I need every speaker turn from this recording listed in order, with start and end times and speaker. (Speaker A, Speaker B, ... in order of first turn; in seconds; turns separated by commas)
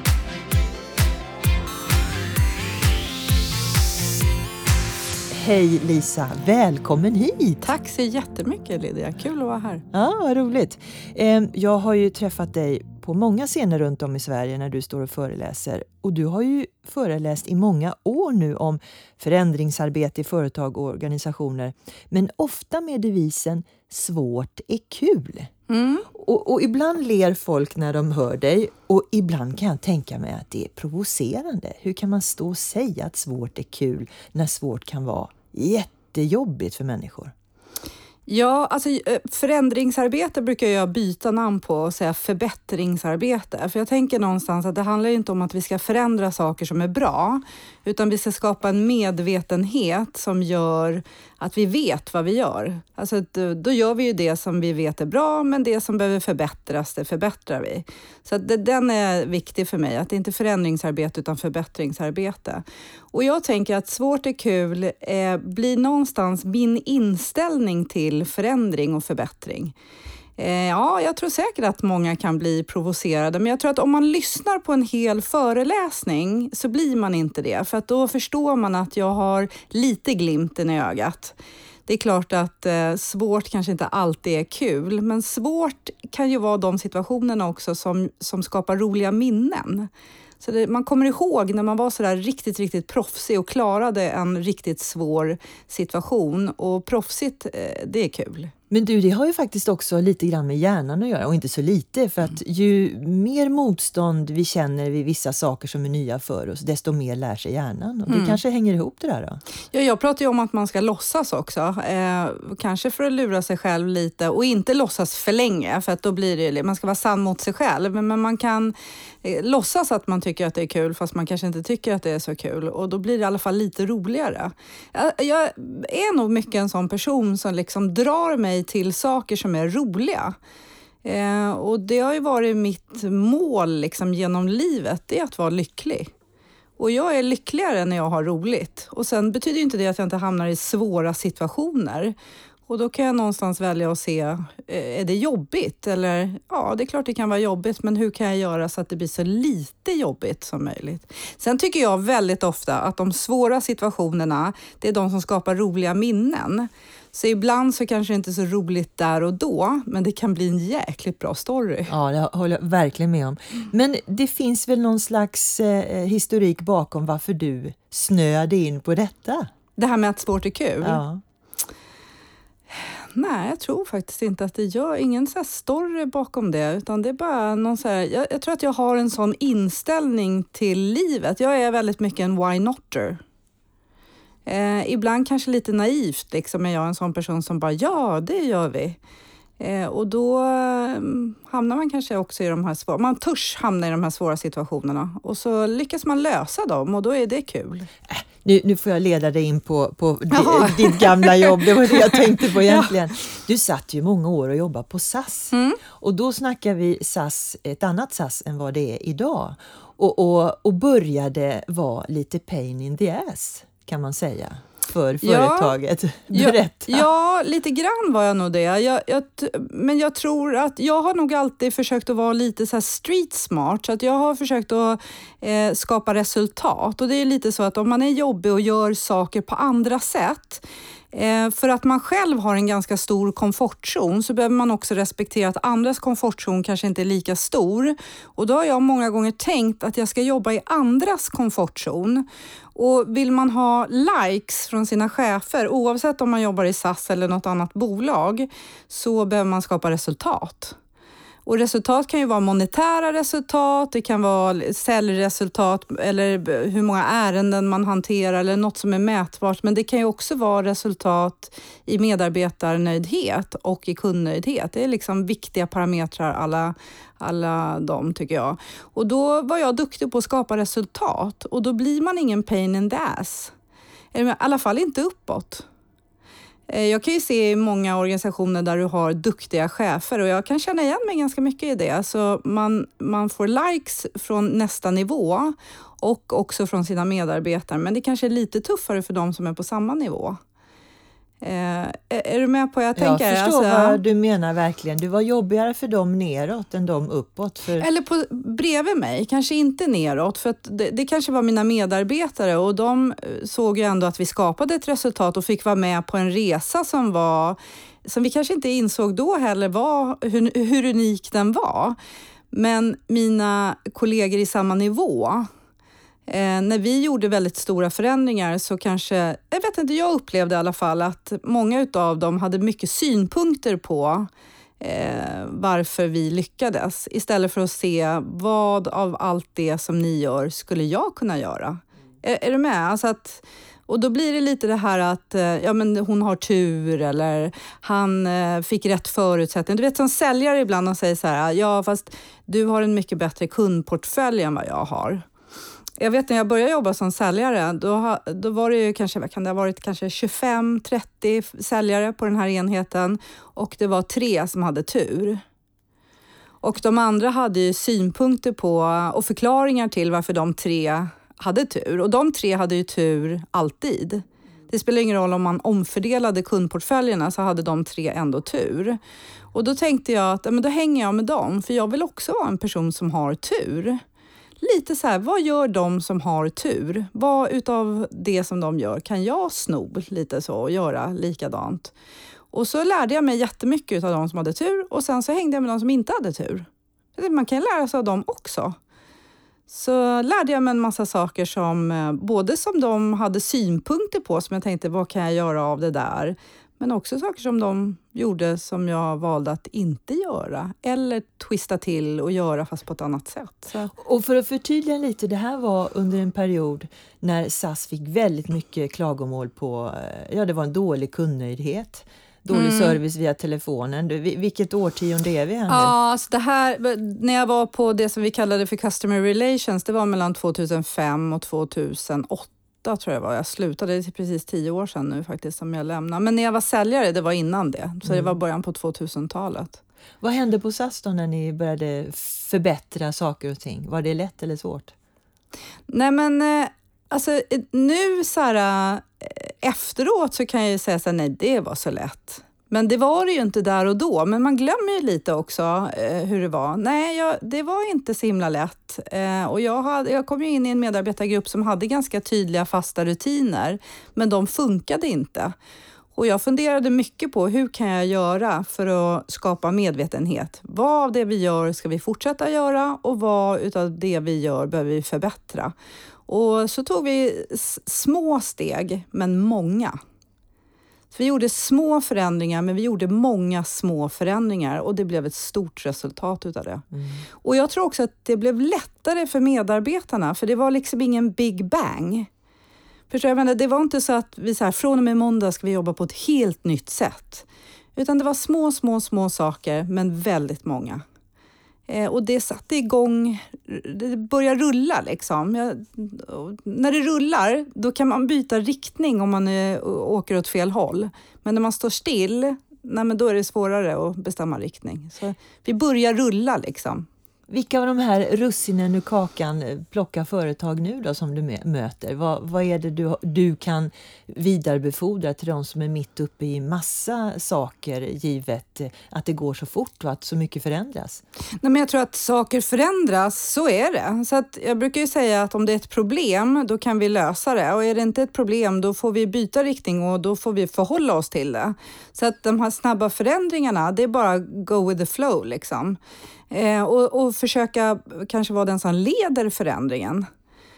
Speaker A: 5.3-7.6, Speaker B: 7.6-9.8, Speaker A: 9.9-25.5, Speaker B: 25.7-26.1, Speaker A: 26.1-37.3, Speaker B: 38.3-69.7, Speaker B: 70.4-81.3, Speaker B: 81.9-89.9, Speaker B: 90.4-98.5, Speaker A: 98.7-109.4, Speaker B: 108.1-108.4, Speaker B: 109.7-130.3, Speaker B: 131.0-136.1, Speaker B: 136.8-142.1, Speaker B: 142.7-161.9, Speaker A: 161.9-169.5, Speaker B: 169.8-171.0, Speaker A: 170.8-171.2, Speaker B: 172.7-183.2, Speaker B: 184.4-189.0, Speaker B: 189.6-197.9, Speaker A: 198.1-217.1, Speaker B: 200.3-202.9, Speaker B: 205.5-205.8, Speaker B: 215.2-215.7, Speaker B: 216.3-250.8, Speaker B: 251.4-273.5, Speaker B: 274.1-275.6, Speaker B: 276.7-290.4, Speaker B: 291.4-294.0, Speaker A: 292.9-297.9, Speaker B: 297.8-312.0, Speaker B: 312.5-315.5, Speaker B: 316.3-324.3, Speaker B: 324.8-345.3, Speaker B: 346.0-355.4, Speaker B: 356.6-369.0, Speaker B: 369.5-374.0, Speaker B: 374.6-381.9, Speaker B: 382.5-388.8, Speaker B: 389.7-403.9, Speaker A: 403.9-415.9, Speaker B: 412.5-413.0, Speaker B: 415.7-429.8, Speaker A: 428.1-428.3, Speaker A: 430.2-434.9, Speaker B: 435.9-455.5, Speaker B: 456.1-465.7, Speaker B: 466.3-470.0, Speaker B: 471.1-476.9, Speaker A: 476.9-477.2, Speaker B: 477.4-482.3, Speaker B: 483.1-491.0, Speaker B: 491.9-507.1, Speaker A: 507.5-521.2, Speaker B: 521.6-536.0, Speaker B: 536.5-540.3